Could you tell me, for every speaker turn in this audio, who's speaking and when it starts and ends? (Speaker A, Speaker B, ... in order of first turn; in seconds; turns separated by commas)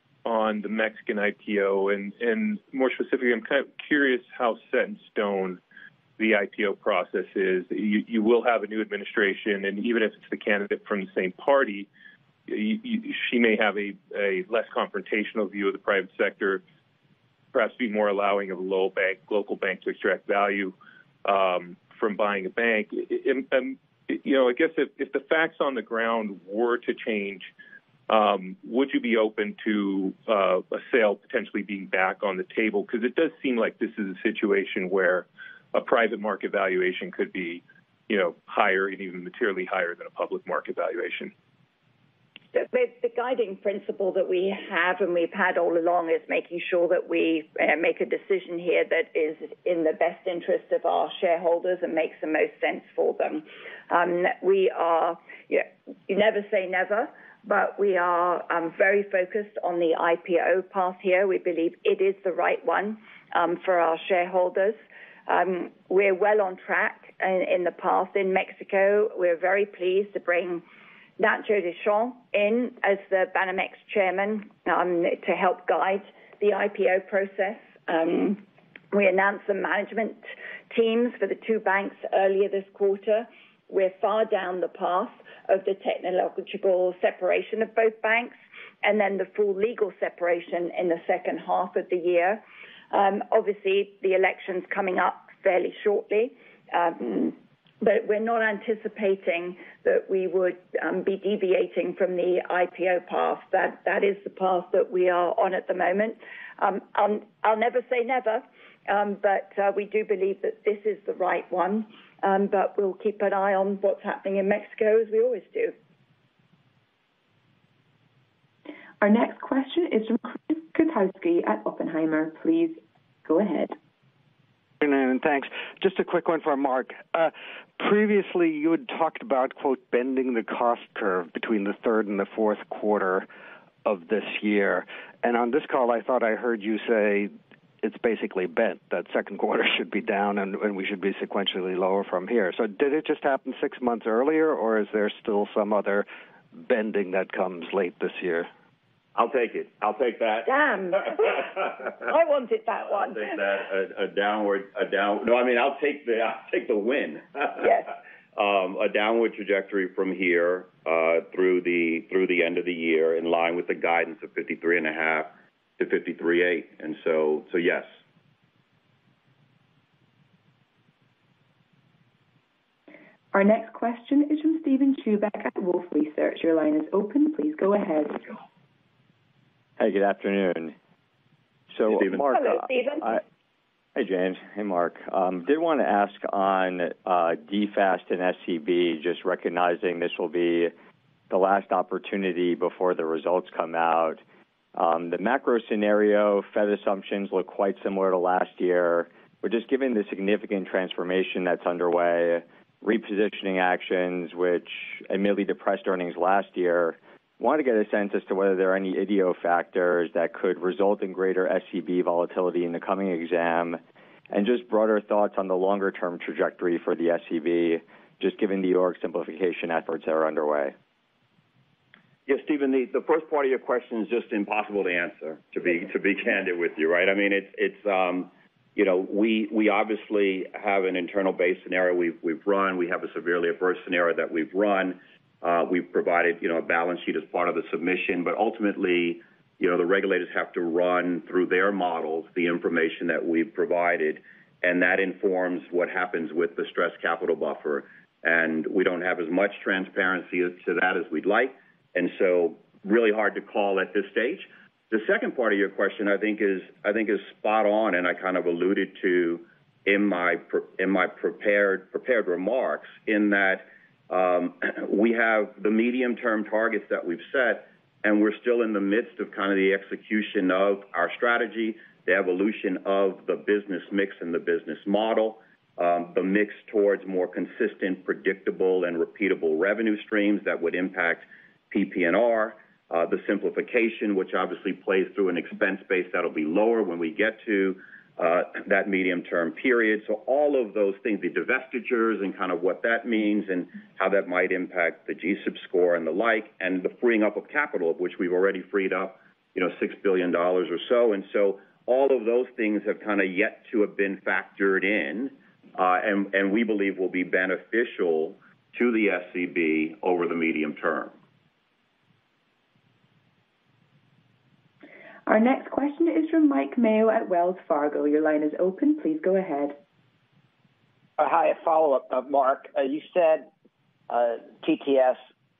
Speaker A: 0.2-5.6, Speaker A: 6.2-11.9, Speaker A: 12.5-16.6, Speaker A: 17.5-27.5, Speaker A: 28.1-41.3, Speaker B: 42.5-70.6, Speaker B: 71.2-115.7, Speaker C: 119.0-123.8, Speaker D: 124.8-133.3, Speaker D: 133.8-148.5, Speaker E: 149.2-150.5, Speaker B: 150.5-153.4, Speaker E: 151.0-151.6, Speaker E: 153.1-157.7, Speaker B: 157.6-157.9, Speaker E: 158.3-168.0, Speaker C: 173.3-178.2, Speaker F: 179.8-180.7, Speaker F: 181.7-183.2, Speaker E: 181.9-182.4, Speaker B: 182.3-183.1, Speaker F: 184.0-190.7, Speaker F: 191.3-194.2, Speaker F: 194.8-213.8, Speaker F: 214.3-220.7, Speaker E: 222.3-311.1, Speaker C: 315.3-319.8, Speaker G: 321.2-323.5, Speaker G: 324.1-325.2